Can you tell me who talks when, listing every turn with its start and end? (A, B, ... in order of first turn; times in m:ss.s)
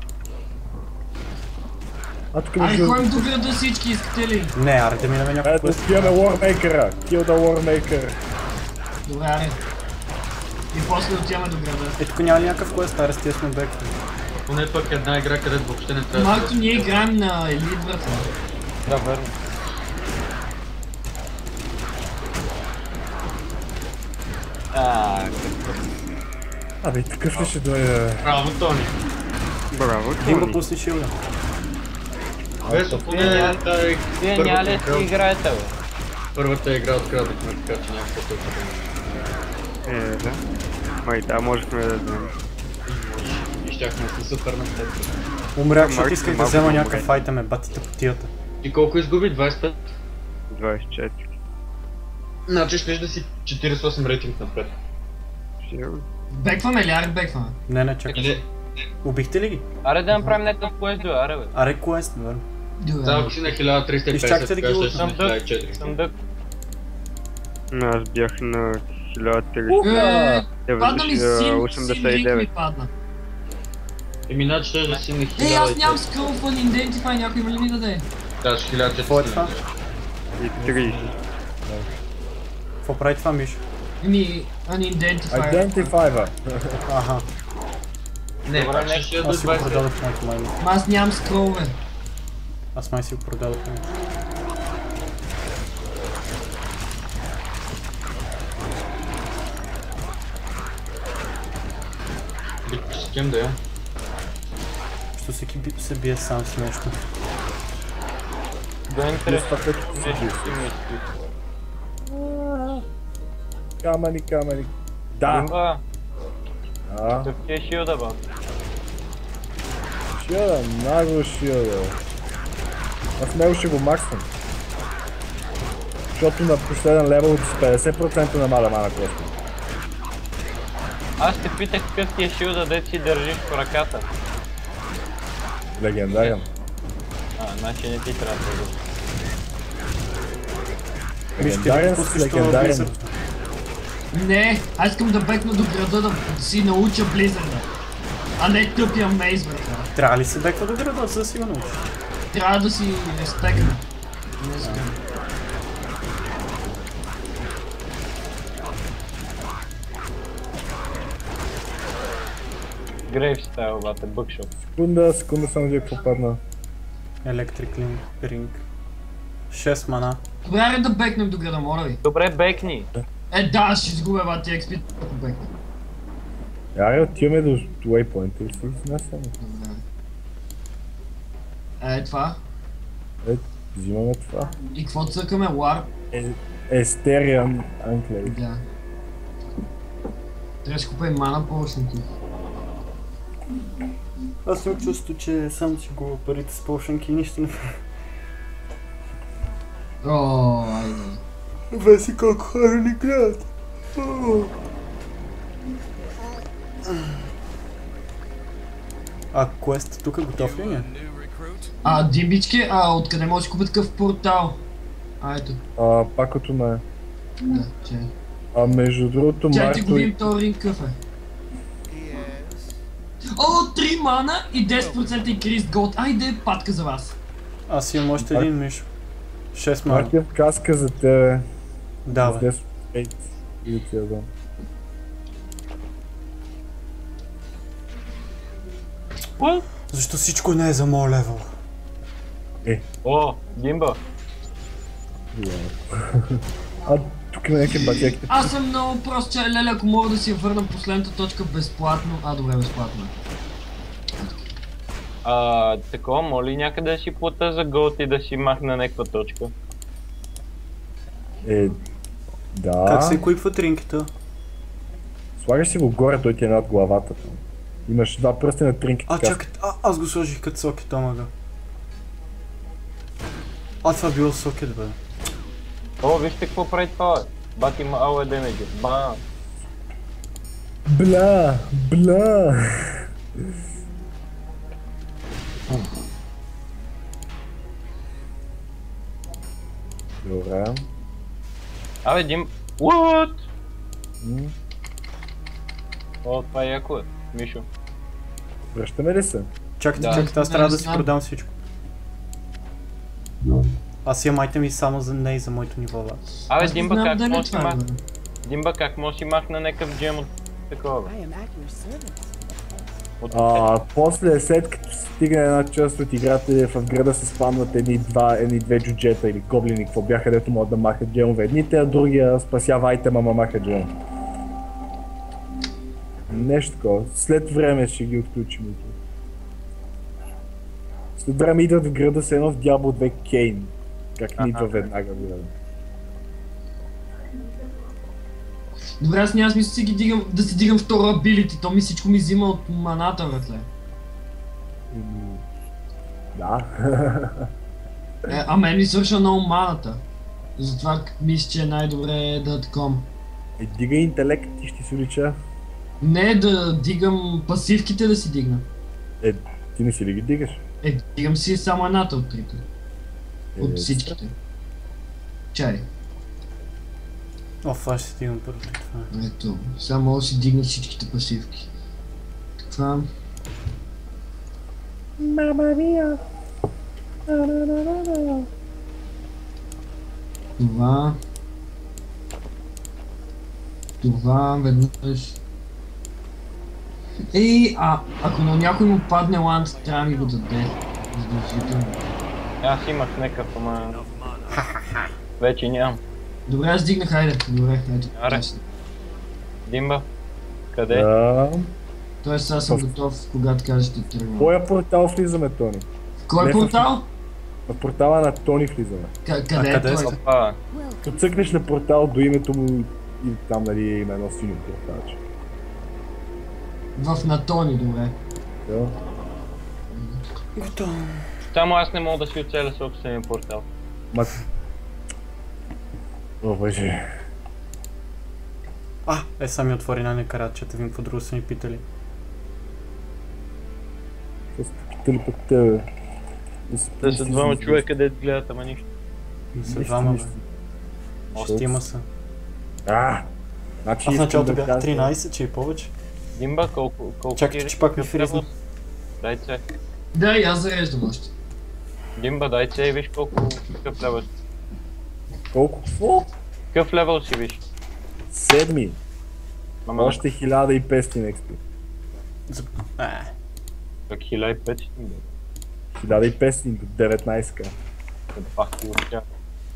0:02.3-0:03.3 A
0:02.6-0:04.5 B
0:04.5-0:06.2 C
0:05.4-0:08.2 A
0:09.0-0:09.6 B
0:10.7-0:12.0 B
0:12.0-0:14.0 C
0:14.4-0:17.0 D
0:16.1-0:18.3 B
0:18.9-0:19.3 D
0:24.7-0:25.8 D
0:26.8-0:28.3 A
0:28.2-0:28.9 D
0:29.7-0:30.6 E
0:30.2-0:31.1 C
0:32.6-0:33.5 A
0:32.6-0:35.1 D
0:33.1-0:33.6 F
0:34.2-0:35.7 F
0:36.3-0:39.0 D
0:39.8-0:40.4 E
0:41.0-0:42.3 E
0:42.8-0:45.2 D
0:45.6-0:48.3 C
0:45.7-0:47.2 E
0:48.6-0:49.8 D
0:50.5-0:51.3 E
0:52.5-0:54.7 D
0:55.6-0:56.0 E
0:56.3-0:57.6 B
0:57.7-0:58.4 C
0:58.1-0:58.4 D
0:59.0-0:59.6 C
0:59.8-1:01.5 F
1:01.5-1:02.4 C
1:02.8-1:03.6 B
1:03.0-1:06.0 D
1:04.1-1:05.0 C
1:05.0-1:06.1 F
1:07.7-1:10.0 E
1:09.7-1:10.4 A
1:09.8-1:12.9 B
1:10.6-1:12.5 E
1:14.3-1:16.2 D
1:15.4-1:18.1 B
1:18.4-1:19.6 D
1:19.0-1:19.5 C
1:20.4-1:21.1 E
1:20.5-1:21.9 A
1:22.8-1:23.6 C
1:24.0-1:25.9 B
1:25.3-1:26.8 A
1:26.9-1:27.3 C
1:28.4-1:29.9 D
1:28.5-1:29.1 F
1:29.2-1:30.6 C
1:30.6-1:31.8 B
1:32.7-1:33.9 C
1:42.6-1:43.6 D
1:45.1-1:47.0 C
1:48.9-1:51.1 F
1:49.2-1:50.7 A
1:52.1-1:52.8 A
1:53.8-1:55.5 A
1:55.2-1:55.8 F
1:56.9-1:57.3 A
1:57.2-1:58.2 F
2:00.1-2:02.0 A
2:03.2-2:04.3 A
2:06.1-2:09.3 A
2:11.2-2:14.1 F
2:15.8-2:16.5 A
2:16.1-2:16.4 F
2:17.4-2:18.8 F
2:21.4-2:22.9 A
2:21.4-2:23.1 C
2:24.1-2:27.7 B
2:28.4-2:29.9 B
2:29.9-2:31.9 C
2:32.3-2:33.8 B
2:34.4-2:35.0 B
2:43.1-2:44.5 F
2:44.6-2:46.4 A
2:47.2-2:48.6 C
2:49.5-2:50.2 C
2:50.4-2:52.0 B
2:52.0-2:52.9 F
2:53.3-2:55.5 B
2:56.7-2:59.3 A
2:59.4-2:59.8 B
3:01.8-3:02.4 B
3:03.2-3:04.6 A
3:04.7-3:05.9 B
3:06.1-3:08.4 A
3:08.2-3:08.6 B
3:10.6-3:12.0 B
3:14.4-3:17.8 C
3:20.0-3:21.2 B
3:21.7-3:24.5 C
3:29.3-3:30.9 C
3:31.8-3:34.6 B
3:35.2-3:35.6 B
3:35.8-3:36.8 A
3:37.4-3:38.1 B
3:38.5-3:40.3 A
3:39.5-3:41.0 B
3:43.3-3:47.2 B
3:47.7-3:48.9 C
3:48.2-3:48.5 A
3:49.5-3:50.1 C
3:49.9-3:51.5 A
3:52.0-3:52.5 C
3:52.1-3:54.3 A
3:59.4-3:59.6 F
3:59.9-4:01.5 C
4:03.0-4:04.0 F
4:05.3-4:08.5 A
4:07.9-4:08.1 F
4:08.3-4:13.1 B
4:15.2-4:19.5 F
4:21.4-4:21.8 A
4:22.5-4:23.2 A
4:22.8-4:24.1 C
4:25.4-4:29.4 A
4:29.1-4:31.3 C
4:33.8-4:35.0 C
4:36.0-4:39.2 F
4:40.8-4:43.5 A
4:50.2-4:50.9 A
4:52.0-4:53.5 F
4:54.2-4:54.5 A
4:56.2-4:57.7 F
4:58.7-4:59.5 A
4:59.8-5:01.6 C
5:00.0-5:00.3 F
5:00.0-5:01.1 B
5:04.0-5:06.2 C
5:06.5-5:07.8 F
5:06.6-5:08.0 B
5:08.4-5:11.2 F
5:13.2-5:13.7 F
5:13.3-5:23.9 A
5:26.3-5:29.0 A
5:31.2-5:35.5 A
5:34.4-5:34.7 F
5:39.0-5:43.7 B
5:44.9-5:45.4 A
5:46.3-5:47.5 A
5:48.3-5:50.0 B
5:50.6-5:53.1 B
5:53.6-5:55.4 A
5:56.0-5:58.6 B
5:59.2-6:00.6 A
6:00.8-6:02.6 B
6:03.5-6:04.2 A
6:03.6-6:04.3 B
6:05.5-6:05.8 B
6:07.6-6:09.1 C
6:09.1-6:11.7 B
6:12.7-6:13.1 B
6:15.2-6:16.2 A
6:17.3-6:18.5 A
6:20.6-6:21.2 B
6:24.0-6:25.4 B
6:27.3-6:32.0 B
6:32.6-6:34.1 F
6:34.5-6:35.1 C
6:35.4-6:36.0 F
6:36.5-6:38.6 B
6:38.1-6:38.4 F
6:39.7-6:40.1 F
6:40.7-6:41.1 F
6:40.9-6:41.7 A
6:42.2-6:44.5 B
6:42.6-6:43.0 A
6:44.4-6:45.9 A
6:46.3-6:47.1 B
6:46.4-6:46.9 A
6:47.7-6:49.1 A
6:49.2-6:50.1 B
6:49.6-6:50.2 C
6:50.0-6:50.6 F
6:51.0-6:55.2 A
6:57.0-6:58.2 B
6:58.6-6:59.0 A
6:59.9-7:00.2 B
7:00.6-7:01.2 C
7:01.4-7:03.7 F
7:04.1-7:04.4 A
7:06.4-7:07.1 A
7:09.0-7:11.8 C
7:14.5-7:15.9 A
7:16.7-7:17.8 A
7:17.0-7:18.9 F
7:19.5-7:20.3 C
7:19.6-7:20.4 A
7:21.3-7:21.8 A
7:21.3-7:22.0 C
7:22.8-7:23.3 A
7:23.8-7:25.1 A
7:24.0-7:25.9 C
7:26.3-7:28.5 F
7:27.4-7:28.5 C
7:29.2-7:29.6 F
7:30.1-7:31.3 B
7:32.2-7:34.3 F
7:35.5-7:36.3 A
7:36.7-7:37.6 F
7:38.3-7:39.0 A
7:39.9-7:40.2 F
7:40.0-7:41.6 A
7:42.5-7:43.3 C
7:44.1-7:45.2 F
7:45.9-7:47.7 A
7:48.3-7:49.2 F